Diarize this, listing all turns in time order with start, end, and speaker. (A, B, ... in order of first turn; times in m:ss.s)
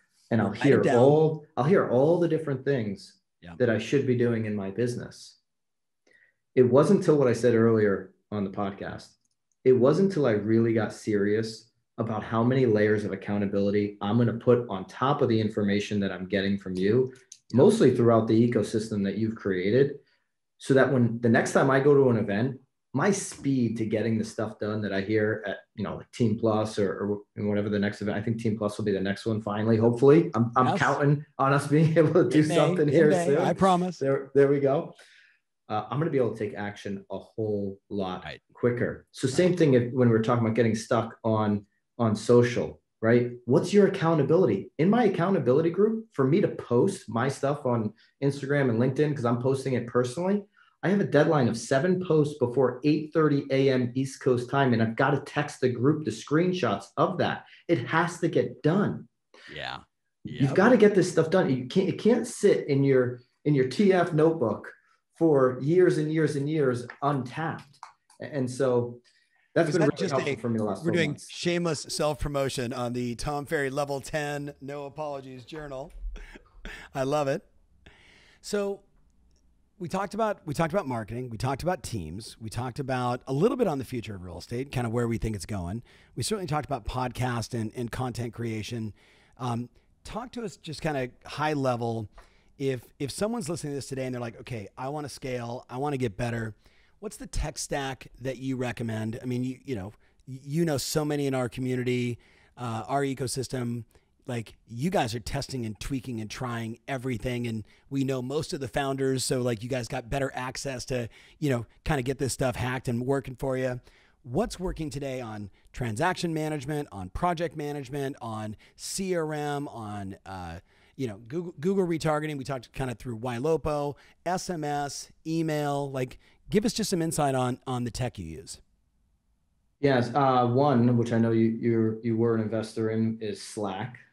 0:00.3-0:05.4 A
0:00.4-0:01.2 B
0:06.5-0:20.0 A
0:20.6-0:34.9 A
0:30.6-0:31.0 B
0:32.3-0:34.0 B
0:35.7-0:59.1 A
0:59.5-1:00.6 B
1:00.4-1:09.0 A
1:09.5-1:11.3 A
1:09.6-1:15.9 B
1:16.9-1:17.4 B
1:18.4-1:18.8 B
1:19.8-2:08.6 B
2:09.8-2:14.0 A